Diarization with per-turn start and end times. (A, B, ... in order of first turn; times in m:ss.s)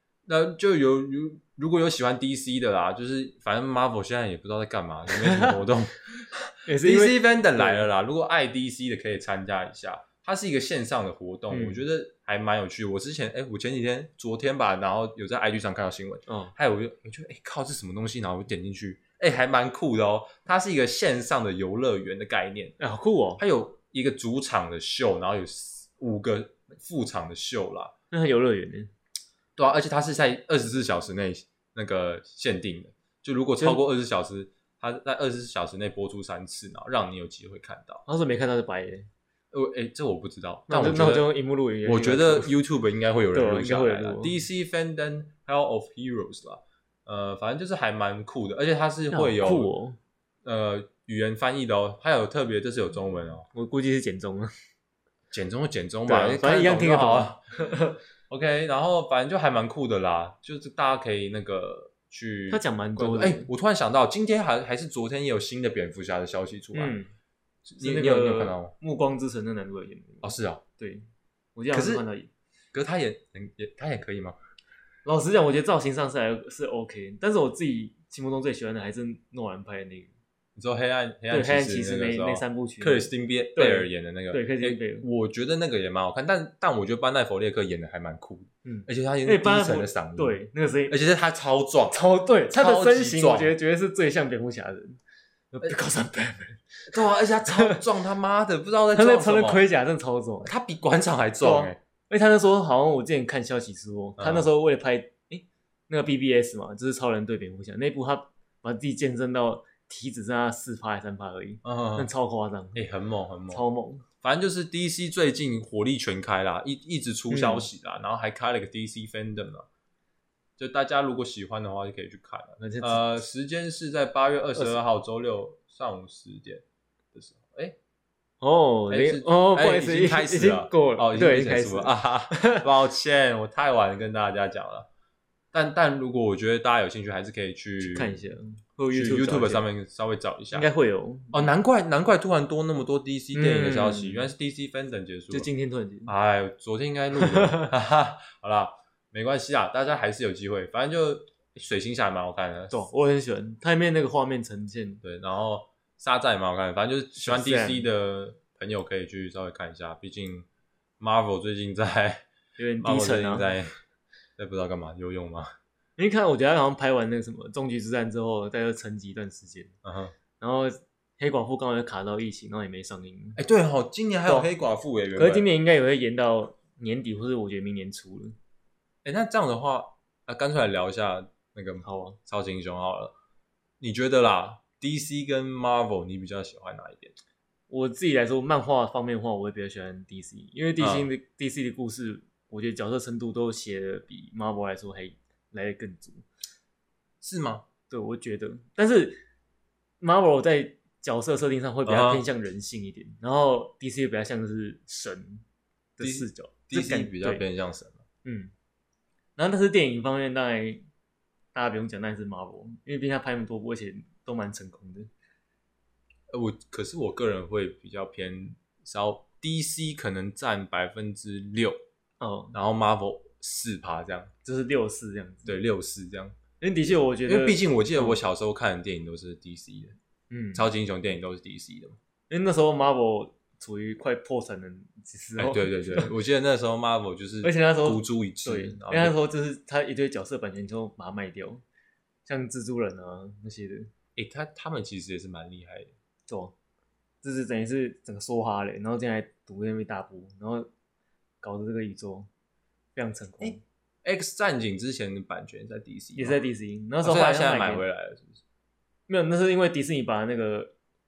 0:00.2-0:22.8 A
0:05.1-0:05.6 B
0:06.7-0:07.8 B
0:11.5-0:11.8 B
0:16.3-0:16.5 B
0:22.8-0:23.4 B
0:23.4-0:27.9 A
0:28.1-0:28.9 B
0:29.6-0:38.0 A
0:38.1-0:39.1 B
0:39.5-0:41.3 A
0:40.7-0:42.5 B
0:41.8-0:49.7 A
0:43.3-0:44.4 B
0:49.1-0:50.0 B
0:50.4-0:53.4 A
0:53.5-0:54.5 B
0:55.3-0:57.4 A
0:56.1-0:58.0 B
0:58.3-1:07.0 A
1:02.5-1:03.5 B
1:06.7-1:07.1 B
1:07.6-1:08.7 A
1:07.8-1:12.3 B
1:10.2-1:10.6 A
1:11.7-1:12.0 A
1:12.7-1:14.4 A
1:15.0-1:20.1 B
1:20.6-1:30.4 A
1:21.3-1:25.1 B
1:28.6-1:31.0 B
1:30.9-1:32.0 A
1:31.9-1:35.0 B
1:32.5-1:33.5 A
1:35.5-1:36.9 B
1:36.9-1:39.6 A
1:37.4-1:37.8 B
1:38.9-1:40.5 B
1:40.4-1:41.8 A
1:41.4-1:52.8 B
1:44.2-1:44.5 A
1:51.6-1:52.1 A
1:52.7-1:53.6 A
1:53.5-1:54.0 B
1:54.2-1:59.6 A
1:57.3-1:57.7 B
2:00.6-2:07.8 A
2:02.6-2:03.1 B
2:08.4-2:12.6 B
2:08.9-2:14.9 A
2:15.5-2:18.2 A
2:17.8-2:19.6 B
2:18.9-2:20.7 A
2:20.5-2:21.5 B
2:21.3-2:25.5 A
2:23.3-2:24.3 B
2:25.3-2:26.1 B
2:26.1-2:32.8 A
2:27.2-2:27.7 B
2:32.7-2:35.0 B
2:35.0-2:40.4 A
2:37.2-2:37.9 B
2:41.0-2:42.3 A
2:42.6-2:43.5 B
2:42.8-2:43.7 A
2:44.4-2:45.5 A
2:46.0-2:49.8 B
2:49.8-2:50.1 A
2:50.4-2:53.4 B
2:53.4-2:55.4 A
2:55.1-2:58.4 B
2:59.0-3:03.1 A
3:01.8-3:02.2 B
3:03.8-3:07.2 A
3:07.7-3:16.2 B
3:10.8-3:11.1 A
3:17.2-3:17.6 A
3:17.9-3:19.2 B
3:20.0-3:25.4 B
3:21.9-3:22.2 A
3:26.0-3:27.4 B
3:26.0-3:28.0 A
3:28.2-3:28.5 B
3:29.4-3:30.8 B
3:31.5-3:35.1 B
3:36.3-3:41.8 A
3:42.2-3:42.6 B
3:42.5-3:44.3 A
3:44.4-3:45.5 B
3:45.4-3:46.4 A
3:46.6-3:48.2 B
3:47.2-3:50.0 A
3:50.3-3:50.7 B
3:50.5-3:52.0 A
3:52.3-3:56.1 B
3:55.4-3:59.2 A
3:57.4-4:01.6 B
4:02.2-4:03.9 B
4:04.2-4:05.9 A
4:06.3-4:06.5 B
4:07.2-4:10.7 B
4:11.4-4:12.3 B
4:13.0-4:13.6 B
4:13.4-4:16.4 A
4:16.2-4:17.8 B
4:17.0-4:18.4 A
4:19.1-4:20.7 B